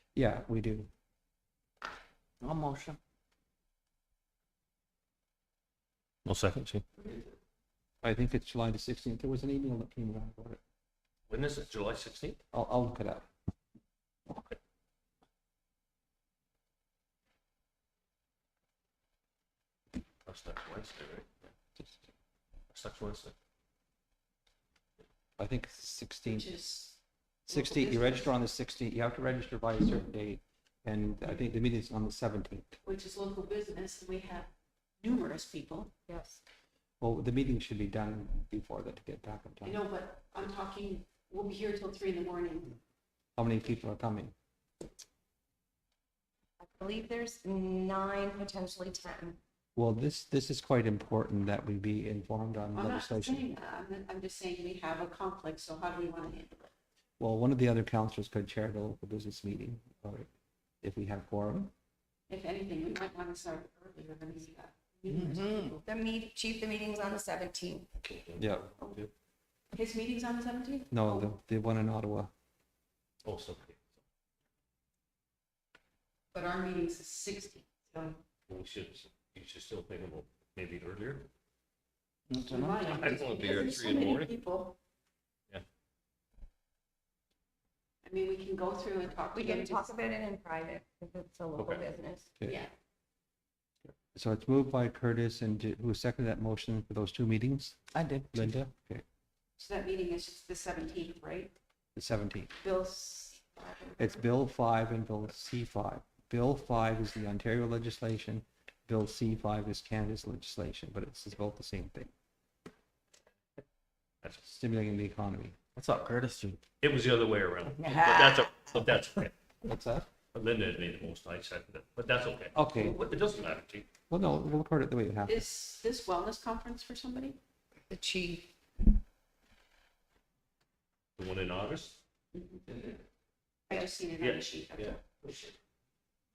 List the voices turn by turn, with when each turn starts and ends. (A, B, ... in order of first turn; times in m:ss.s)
0:00.1-0:00.9 A
0:02.4-0:03.0 B
0:06.2-0:06.9 C
0:08.0-0:10.6 A
0:11.3-0:12.4 C
0:12.5-0:13.3 A
0:20.2-0:21.3 C
0:21.8-0:22.0 A
0:22.7-0:23.3 C
0:25.4-0:26.5 A
0:26.2-0:28.3 D
0:27.5-0:32.8 A
0:32.8-0:34.5 D
0:35.0-0:35.9 D
0:36.1-0:36.4 E
0:37.0-0:39.8 A
0:39.6-0:42.8 D
0:43.4-0:44.3 A
0:46.6-0:49.4 E
0:49.7-0:53.5 A
0:52.7-0:56.7 D
0:57.2-1:00.3 A
1:00.8-1:01.7 A
1:02.3-1:05.8 D
1:05.1-1:05.7 B
1:05.8-1:07.9 E
1:08.0-1:09.1 C
1:08.4-1:08.7 A
1:09.7-1:11.3 D
1:10.9-1:12.3 A
1:13.2-1:13.8 C
1:16.3-1:18.2 D
1:18.5-1:21.3 C
1:22.3-1:22.8 B
1:22.4-1:24.8 D
1:22.9-1:24.3 C
1:28.0-1:29.9 D
1:29.3-1:32.3 E
1:32.4-1:32.7 D
1:34.1-1:37.8 A
1:37.9-1:38.4 B
1:38.3-1:39.0 A
1:39.6-1:41.6 D
1:42.0-1:42.5 A
1:42.6-1:44.2 D
1:44.0-1:52.1 A
1:54.4-1:55.6 A
1:55.8-1:56.6 B
1:56.8-1:59.3 C
1:57.8-1:58.4 B
1:59.6-2:00.1 A
2:00.3-2:03.9 C
2:02.5-2:03.0 A
2:04.1-2:05.4 A
2:05.2-2:07.4 D
2:07.9-2:08.5 E
2:11.2-2:12.0 C
2:12.3-2:12.9 D
2:13.7-2:15.5 D
2:14.2-2:15.5 C